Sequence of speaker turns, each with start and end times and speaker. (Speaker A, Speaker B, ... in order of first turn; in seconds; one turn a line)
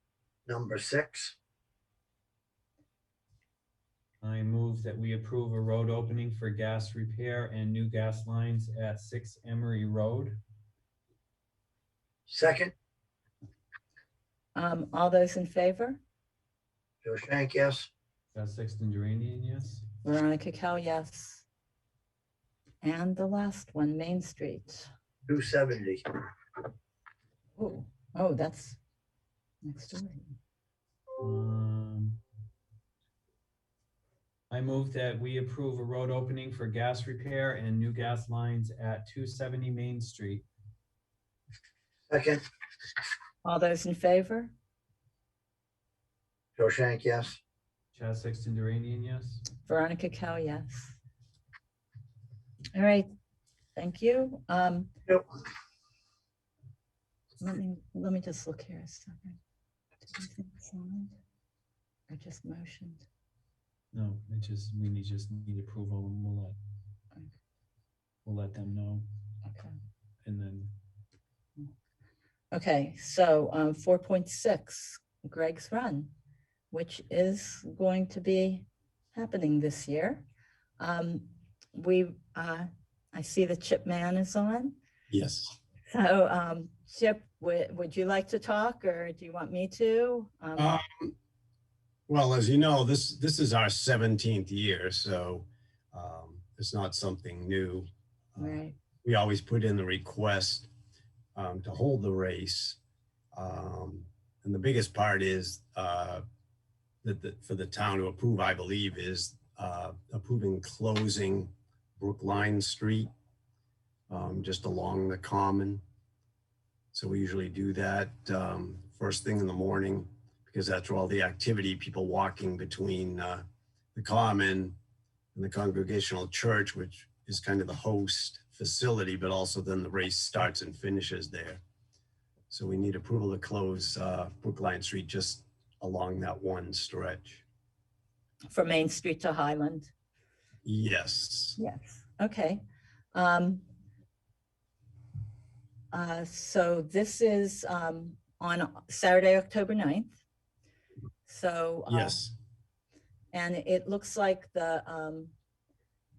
Speaker A: 0.5-1.3
Speaker B: 4.2-10.4
Speaker A: 12.3-12.7
Speaker C: 14.5-16.0
Speaker A: 17.0-17.9
Speaker B: 18.3-19.9
Speaker C: 20.0-21.4
Speaker C: 22.8-24.9
Speaker A: 25.3-26.0
Speaker C: 27.6-28.8
Speaker C: 29.6-30.3
Speaker B: 31.2-32.2
Speaker B: 34.5-40.4
Speaker A: 42.1-42.4
Speaker C: 43.4-44.5
Speaker A: 46.6-47.4
Speaker B: 47.9-49.5
Speaker C: 49.7-51.0
Speaker C: 52.7-53.1
Speaker C: 53.8-54.9
Speaker C: 57.4-59.4
Speaker C: 60.0-61.2
Speaker C: 62.1-63.0
Speaker B: 63.9-66.5
Speaker B: 68.2-69.0
Speaker C: 69.5-69.7
Speaker B: 70.2-70.8
Speaker C: 72.5-76.1
Speaker C: 76.7-80.2
Speaker C: 80.8-84.8
Speaker D: 85.1-85.5
Speaker C: 85.9-90.8
Speaker D: 90.6-91.1
Speaker D: 92.1-100.7
Speaker C: 98.4-98.8
Speaker D: 101.3-102.8
Speaker D: 103.3-106.2
Speaker D: 107.0-113.1
Speaker D: 114.1-115.8
Speaker D: 116.9-124.8
Speaker D: 125.3-131.6
Speaker D: 132.5-137.4
Speaker C: 138.5-139.9
Speaker D: 140.6-141.6
Speaker C: 141.6-142.6
Speaker C: 143.1-143.6
Speaker C: 145.9-150.2
Speaker C: 151.2-152.2
Speaker D: 151.9-152.3
Speaker C: 153.3-155.3